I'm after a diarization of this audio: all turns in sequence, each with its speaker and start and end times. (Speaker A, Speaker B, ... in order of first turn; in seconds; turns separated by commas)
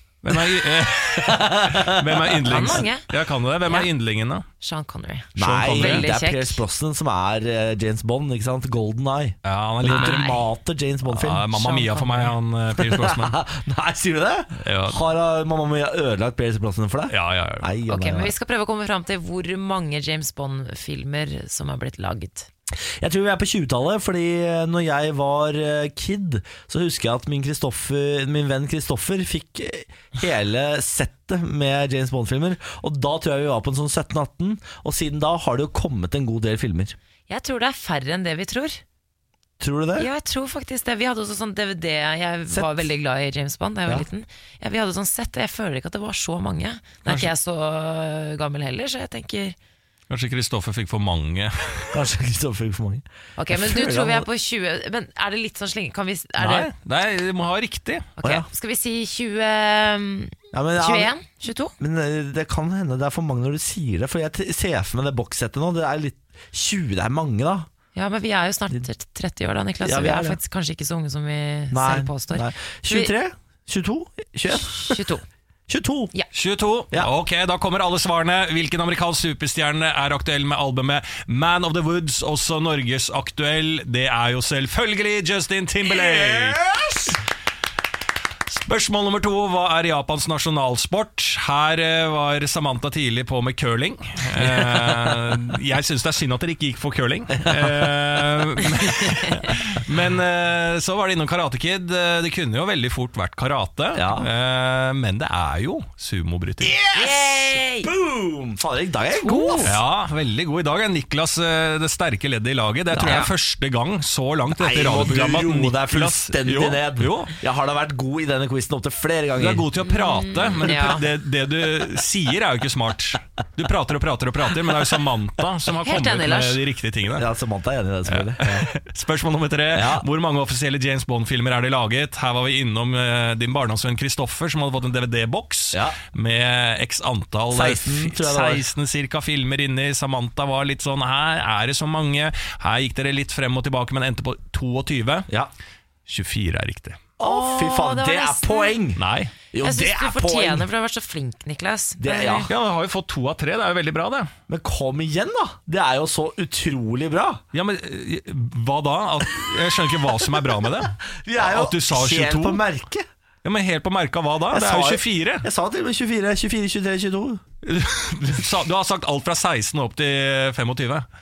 Speaker A: 0.2-4.5, Speaker B: 0.3-0.6, Speaker B: 1.1-2.4, Speaker C: 2.4-3.1, Speaker C: 3.6-3.9, Speaker C: 4.6-6.6, Speaker B: 5.3-11.5, Speaker A: 5.4-6.1, Speaker A: 9.4-10.3, Speaker C: 9.8-10.4, Speaker A: 11.1-13.4, Speaker C: 11.5-12.3, Speaker B: 12.8-18.3, Speaker A: 14.6-15.0, Speaker A: 17.1-17.7, Speaker C: 17.9-22.5, Speaker B: 23.0-37.0, Speaker C: 37.3-38.8, Speaker B: 39.6-40.1, Speaker C: 40.0-49.5, Speaker B: 42.5-42.8, Speaker A: 50.1-52.0, Speaker B: 51.9-54.2, Speaker C: 53.4-56.7, Speaker A: 56.4-58.1, Speaker C: 58.2-61.7, Speaker B: 60.5-61.1, Speaker B: 61.8-67.7, Speaker C: 67.9-73.1, Speaker B: 69.8-70.4, Speaker B: 71.7-75.0, Speaker C: 74.5-75.2, Speaker B: 75.7-76.1, Speaker A: 76.3-86.6, Speaker B: 85.8-87.2, Speaker A: 88.5-106.8, Speaker B: 94.4-95.2, Speaker B: 97.4-97.9, Speaker B: 103.9-104.3, Speaker B: 106.6-109.8, Speaker C: 106.9-107.9, Speaker C: 109.2-109.8, Speaker A: 109.6-117.3, Speaker B: 112.9-113.3, Speaker C: 113.0-113.3, Speaker B: 114.6-119.7, Speaker A: 119.3-127.3, Speaker C: 119.9-121.0, Speaker C: 125.8-126.6, Speaker B: 127.2-128.7, Speaker A: 128.1-145.3, Speaker B: 129.7-130.0, Speaker B: 137.5-138.6, Speaker A: 146.1-147.0, Speaker B: 147.2-150.7, Speaker C: 147.2-148.8, Speaker A: 149.0-149.3, Speaker C: 149.6-152.5, Speaker B: 152.0-152.5, Speaker A: 152.5-154.3, Speaker B: 154.5-157.4, Speaker A: 157.5-162.6, Speaker B: 161.1-163.0, Speaker A: 163.4-165.5, Speaker B: 164.5-167.4, Speaker A: 167.6-171.1